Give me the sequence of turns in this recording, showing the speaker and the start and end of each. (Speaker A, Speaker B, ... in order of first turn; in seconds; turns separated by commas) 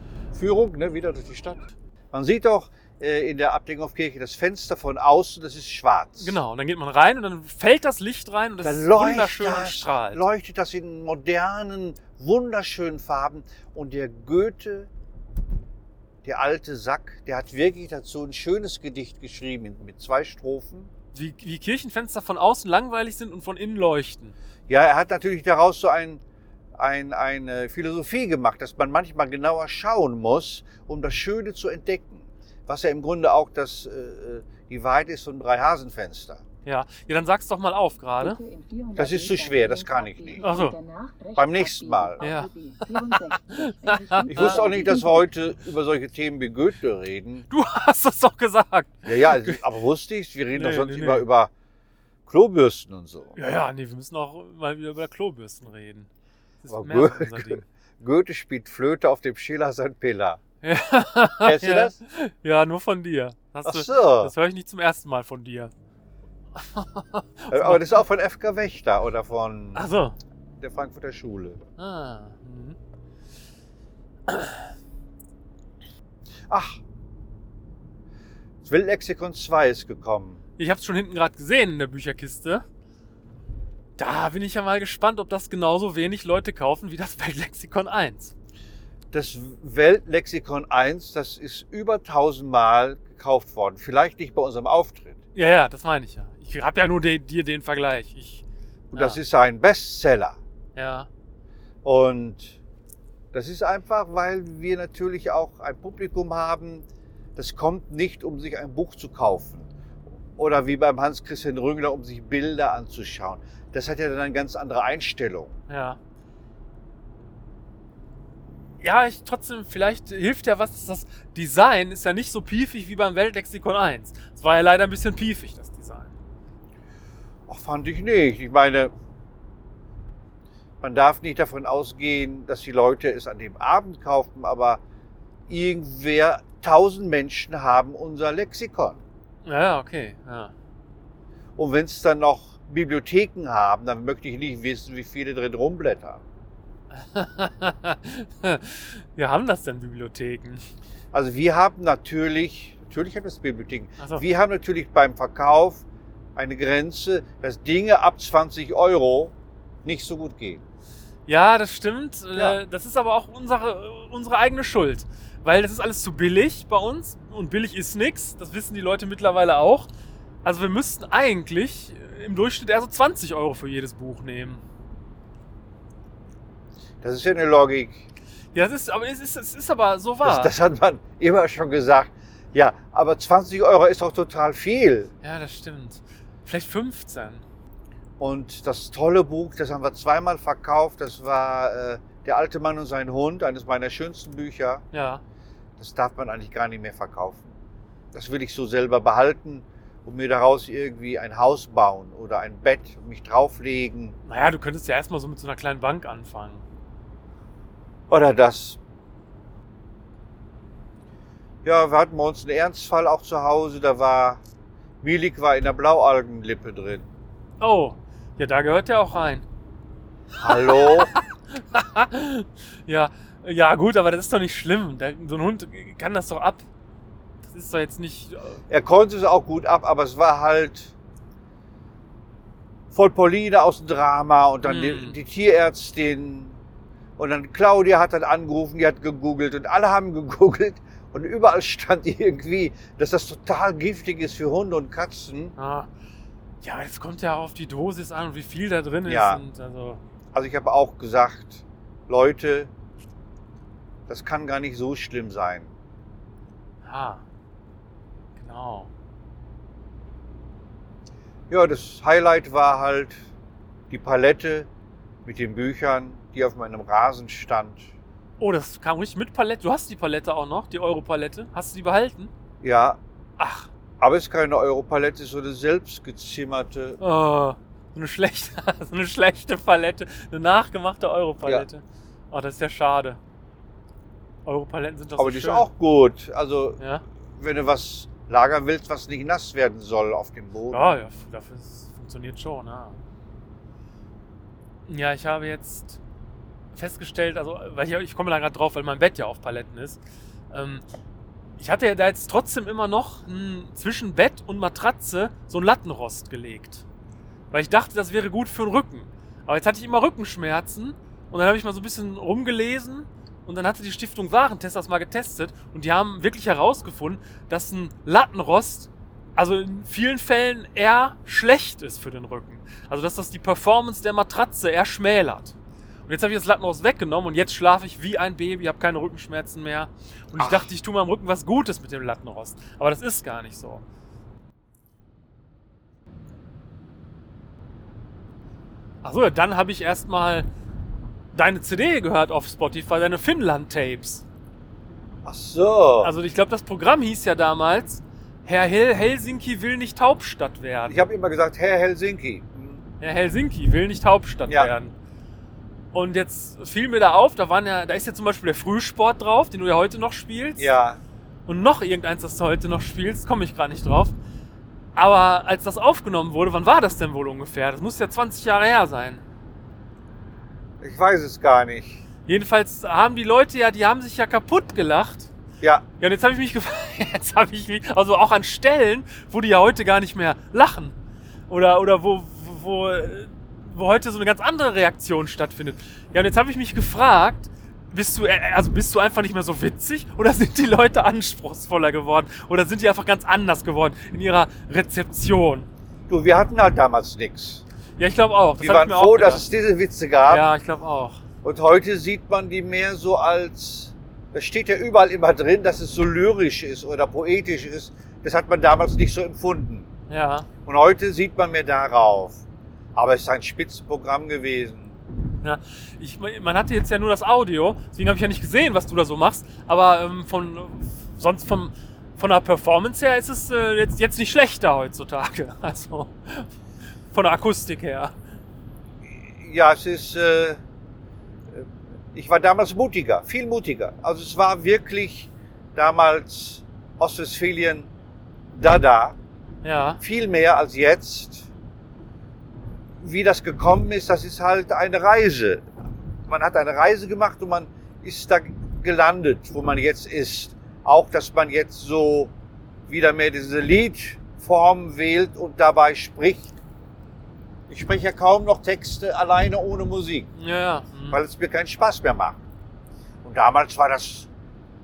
Speaker A: 0.3-6.4, Speaker B: 6.2-10.2, Speaker A: 8.6-14.9, Speaker A: 16.2-20.9, Speaker B: 21.1-24.4, Speaker A: 24.7-26.2, Speaker A: 26.8-36.4, Speaker B: 36.6-38.4, Speaker C: 38.2-45.2, Speaker A: 39.0-40.5, Speaker B: 40.4-40.8, Speaker A: 41.4-42.3, Speaker B: 42.2-44.6, Speaker A: 44.3-47.5, Speaker B: 47.5-49.6, Speaker A: 49.0-51.5, Speaker B: 50.5-51.3, Speaker A: 52.3-53.4, Speaker B: 53.4-56.1, Speaker B: 56.6-57.6, Speaker A: 56.7-60.4, Speaker B: 60.6-65.7, Speaker A: 61.4-62.0, Speaker A: 63.6-64.3, Speaker B: 66.6-68.0, Speaker A: 67.5-69.8, Speaker B: 69.8-70.2, Speaker A: 70.6-71.6, Speaker B: 71.8-72.8, Speaker B: 74.3-74.7, Speaker A: 76.5-76.8, Speaker A: 78.6-80.4, Speaker B: 80.6-82.6, Speaker B: 84.0-88.3, Speaker A: 89.1-95.2, Speaker B: 95.3-99.2, Speaker A: 98.9-100.4, Speaker B: 100.8-101.1, Speaker A: 101.8-102.6, Speaker A: 103.3-109.7, Speaker A: 110.4-115.5, Speaker B: 115.7-116.0, Speaker B: 118.8-126.2, Speaker A: 127.5-128.9, Speaker A: 130.8-134.8, Speaker A: 135.5-139.0, Speaker B: 139.4-140.5, Speaker A: 141.6-146.2, Speaker B: 146.9-150.6, Speaker A: 151.1-155.8, Speaker B: 154.0-154.2, Speaker A: 156.4-160.6, Speaker B: 161.3-169.9, Speaker B: 170.4-174.6, Speaker A: 177.0-178.0, Speaker B: 178.5-180.5, Speaker A: 180.2-185.1, Speaker B: 185.2-187.4, Speaker A: 188.2-194.8, Speaker B: 194.9-195.2, Speaker A: 195.8-197.6, Speaker A: 198.1-204.2, Speaker B: 204.3-206.6, Speaker A: 208.1-208.8, Speaker A: 211.6-214.4, Speaker A: 215.0-217.1, Speaker B: 217.6-219.4, Speaker A: 220.4-221.1, Speaker B: 220.4-226.7, Speaker B: 227.5-228.6, Speaker A: 228.7-230.9, Speaker A: 232.9-236.6, Speaker B: 234.6-235.2, Speaker A: 237.2-245.5, Speaker B: 245.6-245.9, Speaker B: 246.6-250.0, Speaker A: 249.1-249.4, Speaker A: 250.3-252.7, Speaker A: 254.1-255.7, Speaker B: 256.8-257.2, Speaker B: 258.4-258.9, Speaker A: 261.5-263.2, Speaker A: 263.9-264.7, Speaker A: 265.2-267.9, Speaker B: 268.4-272.3, Speaker A: 272.6-273.0, Speaker B: 273.4-273.7, Speaker A: 274.0-277.0, Speaker B: 277.0-283.2, Speaker B: 284.4-285.7, Speaker A: 285.2-286.8, Speaker A: 287.4-291.0, Speaker B: 290.7-293.0, Speaker B: 294.9-296.0, Speaker B: 296.7-300.0, Speaker B: 300.5-300.8, Speaker B: 301.6-306.9, Speaker B: 307.5-325.6, Speaker B: 326.1-333.8, Speaker A: 330.4-330.7, Speaker B: 339.0-340.5, Speaker B: 341.3-344.2, Speaker A: 345.2-346.2, Speaker B: 346.0-351.0, Speaker A: 350.9-352.8, Speaker B: 353.0-354.9, Speaker A: 354.5-354.7, Speaker B: 355.9-360.7, Speaker A: 360.6-361.0, Speaker B: 361.5-364.2, Speaker B: 364.9-369.2, Speaker A: 370.8-372.0, Speaker B: 372.3-375.3, Speaker A: 375.6-375.9, Speaker B: 376.0-381.0, Speaker B: 381.5-395.7, Speaker A: 396.1-397.6, Speaker B: 398.0-399.4, Speaker A: 398.6-400.5, Speaker B: 400.3-401.2, Speaker A: 401.4-409.9, Speaker B: 410.1-410.5, Speaker A: 410.7-412.4, Speaker A: 412.9-415.0, Speaker B: 415.4-426.5, Speaker B: 427.1-428.1, Speaker A: 429.2-430.6, Speaker A: 431.5-437.9, Speaker A: 438.6-439.2, Speaker B: 439.6-440.0, Speaker A: 440.0-441.5, Speaker A: 443.0-445.6, Speaker A: 446.3-452.3, Speaker A: 452.9-456.5, Speaker A: 457.7-460.3, Speaker B: 460.4-461.2, Speaker A: 461.1-462.4, Speaker A: 463.2-464.3